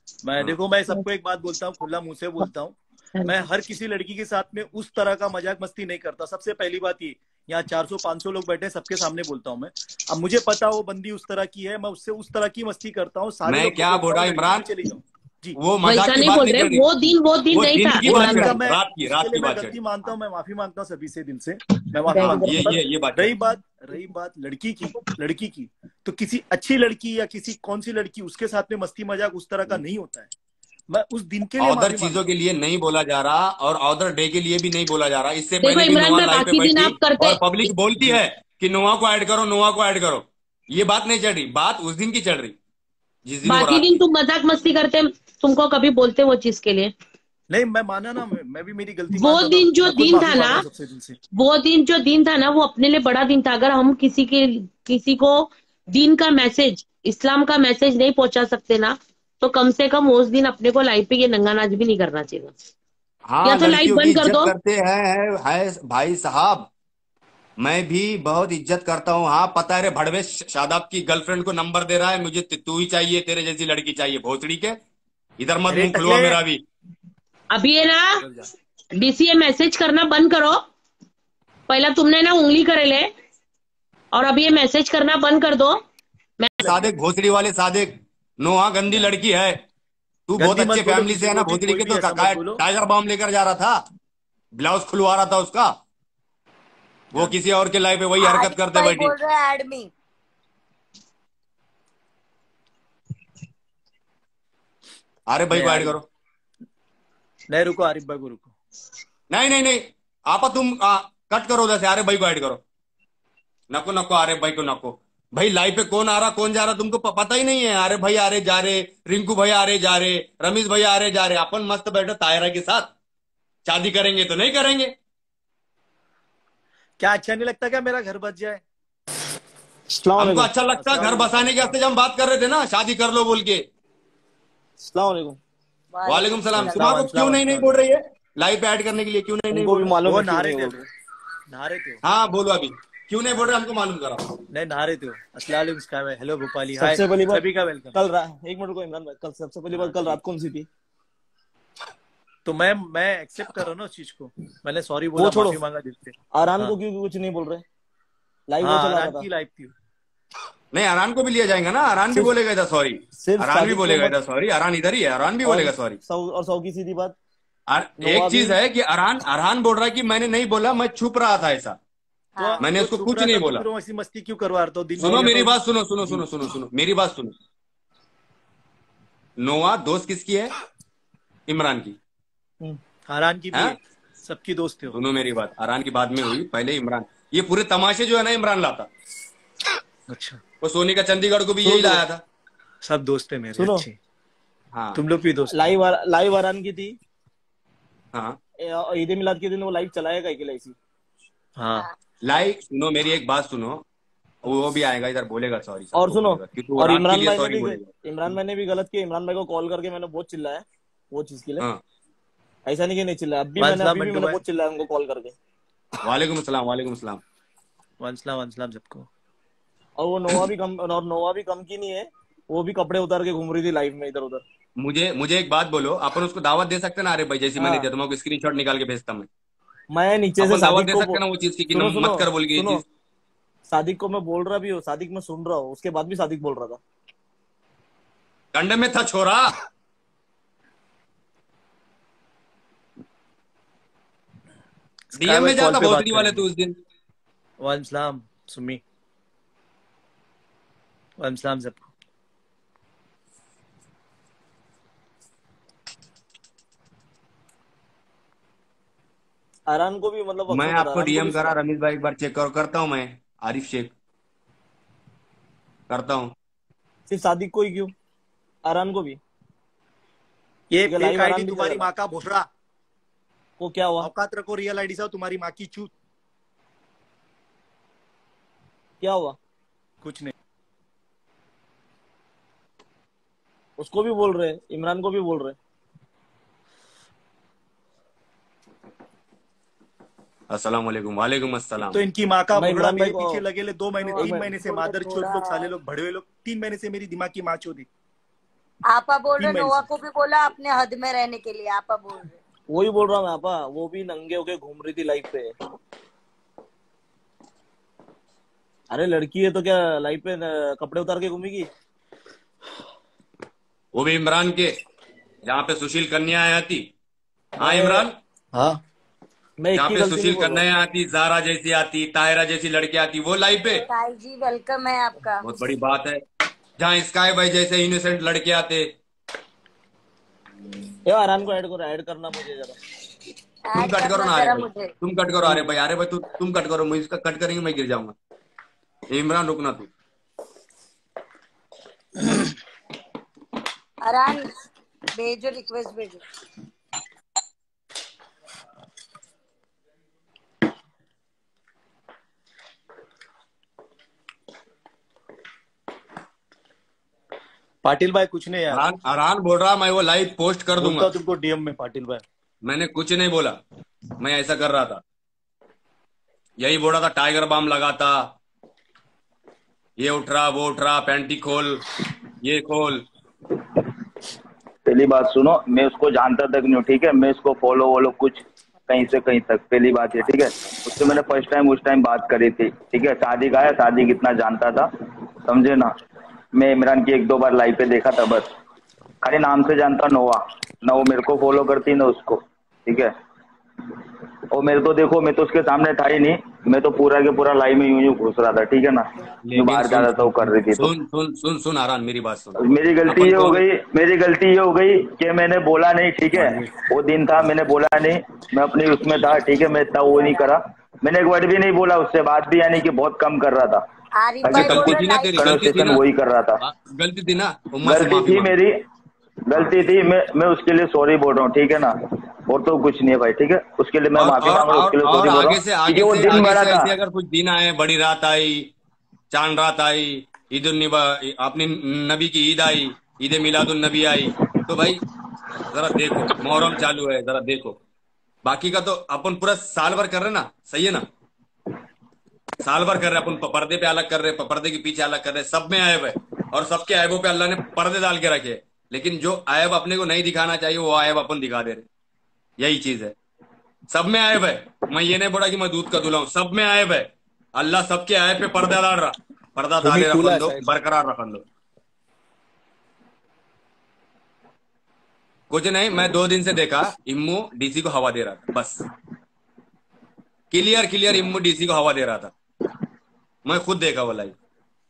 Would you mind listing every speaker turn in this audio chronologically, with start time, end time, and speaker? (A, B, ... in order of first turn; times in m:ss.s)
0:00.2-0:15.6 A
0:13.5-0:14.7 B
0:15.6-0:16.9 B
0:15.8-0:18.6 C
0:17.5-0:19.8 B
0:18.0-0:30.3 A
0:22.0-0:22.7 C
0:22.2-0:23.3 B
0:30.9-0:32.3 A
0:31.6-0:42.6 B
0:35.6-0:37.7 C
0:43.3-0:44.0 B
0:43.4-0:46.9 C
0:47.5-0:51.2 A
0:49.1-0:50.6 C
0:51.3-1:02.5 C
1:03.3-1:06.7 B
1:03.4-1:04.5 C
1:07.6-1:14.8 B
1:15.4-1:16.6 B
1:15.7-1:16.4 A
1:17.5-1:18.2 C
1:19.0-1:20.6 C
1:21.7-1:23.1 C
1:24.1-1:25.8 C
1:26.4-1:26.8 C
1:26.6-1:29.6 B
1:30.3-1:33.8 B
1:30.4-1:32.6 A
1:34.6-1:35.8 B
1:37.1-1:39.1 B
1:38.2-1:39.9 D
1:45.3-1:46.0 B
1:45.5-1:45.9 A
1:47.5-1:48.5 A
1:49.3-1:52.6 B
1:53.7-2:02.9 B
2:03.6-2:04.9 B
2:07.0-2:08.6 A
2:09.9-2:10.5 E
2:10.2-2:13.6 B
2:10.7-2:11.8 A
2:14.8-2:15.4 E
2:15.9-2:17.0 D
2:16.1-2:19.9 B
2:16.6-2:17.8 A
2:19.5-2:20.8 E
2:20.0-2:20.8 A
2:21.5-2:22.0 A
2:22.0-2:24.4 B
2:24.5-2:28.0 A
2:26.7-2:30.7 E
2:32.4-2:36.7 A
2:35.2-2:35.6 E
2:36.3-2:37.6 E
2:38.5-2:39.3 E
2:38.6-2:39.7 A
2:40.7-2:46.0 B
2:43.2-2:44.1 E
2:45.4-2:47.2 E
2:47.7-2:51.8 B
2:48.0-2:48.6 E
2:52.4-2:52.7 D
2:52.4-2:55.5 A
2:52.6-2:53.7 B
2:55.0-2:57.3 B
2:55.0-2:55.5 E
2:59.4-3:00.5 B
3:01.5-3:02.0 B
3:02.6-3:05.0 A
3:04.9-3:08.9 B
3:10.1-3:10.4 A
3:10.6-3:12.2 B
3:11.6-3:12.0 E
3:12.8-3:14.0 A
3:13.6-3:13.9 E
3:14.7-3:15.0 B
3:14.9-3:15.5 A
3:15.5-3:17.0 E
3:18.1-3:18.4 B
3:18.6-3:20.8 E
3:21.6-3:21.9 A
3:22.2-3:23.8 B
3:24.4-3:27.9 B
3:26.0-3:31.6 E
3:32.7-3:35.4 E
3:33.6-3:34.4 A
3:36.0-3:37.2 B
3:38.0-3:39.1 A
3:40.0-3:44.4 E
3:44.8-3:49.3 B
3:47.6-3:47.9 E
3:49.9-3:51.2 E
3:50.4-3:52.8 B
3:51.7-3:52.8 E
3:53.7-3:56.8 E
3:58.5-3:59.5 B
4:05.2-4:06.4 A
4:05.2-4:06.8 B
4:07.6-4:08.8 A
4:11.2-4:11.8 A
4:19.7-4:21.5 E
4:20.5-4:23.9 B
4:25.9-4:26.3 B
4:27.1-4:27.9 E
4:28.6-4:29.2 E
4:30.7-4:32.5 A
4:30.8-4:31.9 E
4:33.6-4:34.1 E
4:34.0-4:35.9 A
4:39.0-4:39.4 E
4:40.0-4:40.3 A
4:43.8-4:45.6 E
4:50.5-4:52.0 B
4:51.9-4:57.9 A
4:52.5-4:53.4 E
4:54.0-4:55.7 D
4:54.2-4:54.5 E
4:58.9-5:02.4 D
4:59.4-4:59.9 A
5:02.7-5:05.5 E
5:08.9-5:11.7 E
5:14.0-5:14.7 B
5:15.5-5:16.9 B
5:17.6-5:18.2 B
5:17.6-5:18.0 E
5:18.5-5:18.8 A
5:19.6-5:20.6 E
5:19.8-5:23.9 B
5:23.7-5:25.4 D
5:25.4-5:26.2 B
5:26.8-5:28.9 B
5:31.1-5:32.8 E
5:33.7-5:34.9 D
5:33.8-5:38.2 B
5:39.1-5:39.9 B
5:44.0-5:44.5 D
5:45.2-5:46.2 D
5:57.8-5:58.8 A
5:58.7-6:01.1 B
6:00.8-6:02.2 A
6:02.6-6:03.6 B
6:04.2-6:05.0 B
6:06.6-6:08.3 B
6:10.0-6:11.8 B
6:12.4-6:13.0 B
6:14.9-6:24.9 F
6:25.5-6:25.9 F
6:26.6-6:28.5 F
6:29.2-6:33.1 F
6:34.5-6:40.9 F
6:39.4-6:43.6 B
6:42.6-6:53.8 F
6:46.4-6:46.7 B
6:50.1-6:50.6 D
6:54.2-6:55.8 D
6:54.4-6:56.6 F
6:54.5-6:56.0 B
6:56.6-6:58.6 B
6:57.8-6:58.8 F
6:59.5-7:06.9 F
6:59.5-6:59.8 B
7:04.2-7:08.7 B
7:09.3-7:15.0 B
7:15.7-7:17.8 B
7:18.4-7:21.0 B
7:22.6-7:31.8 B
7:32.6-7:33.2 B
7:33.9-7:41.4 B
7:39.8-7:40.7 A
7:45.5-7:48.8 B
7:50.5-7:52.3 B
7:53.5-7:54.4 B